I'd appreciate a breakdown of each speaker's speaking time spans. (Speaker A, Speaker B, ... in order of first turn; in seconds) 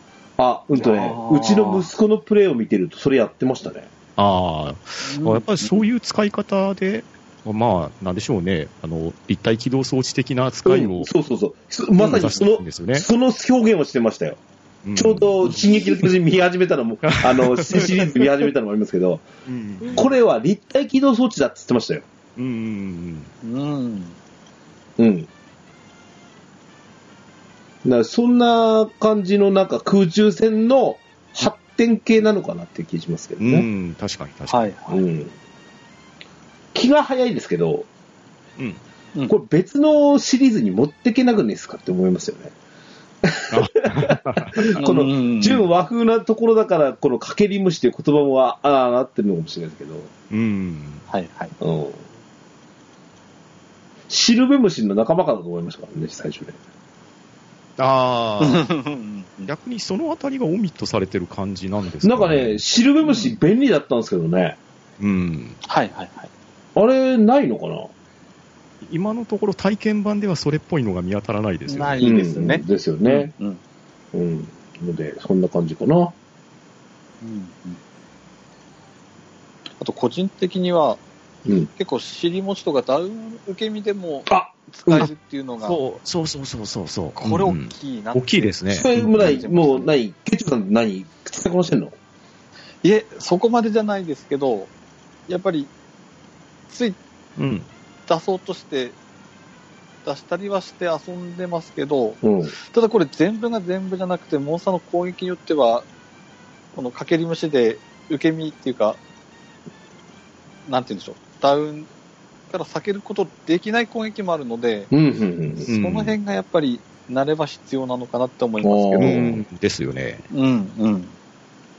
Speaker A: 0.4-3.9, 10.7-14.4, 15.0-19.3, 19.9-22.1, 25.0-25.3, 27.8-33.7, 34.9-35.3, 36.7-37.9, 39.3-42.5, 43.2-50.1, 51.6-52.0, 54.1-56.6, 62.0-64.6, 66.8-67.9, 72.0-73.3, 74.1-76.1, 84.3-85.1, 88.7-91.9, 102.2-102.5, 114.9-115.7, 118.6-119.4
Speaker B: 0.7-1.9, 5.1-5.8, 23.4-24.2, 34.5-35.0, 44.8-45.7, 51.1-51.5, 58.4-59.5, 63.0-63.4, 65.6-66.3, 71.7-73.6, 77.2-77.8, 79.8-81.0, 81.7-85.8, 87.2-89.9, 92.8-94.7, 95.3-95.7, 96.7-97.0, 98.1-99.0, 100.0-105.9, 106.8-109.0, 110.7-111.9, 112.5-114.9, 115.6-119.2, 120.3-121.1
Speaker C: 4.2-11.1, 12.0-13.1, 14.8-15.6, 17.1-18.1, 19.5-20.0, 22.4-23.3, 33.4-34.7, 43.5-44.8, 50.3-51.0, 57.8-58.7, 59.5-62.6, 65.0-65.6, 68.8-72.1, 85.6-89.4, 97.4-97.7, 115.7-116.2, 119.0-120.3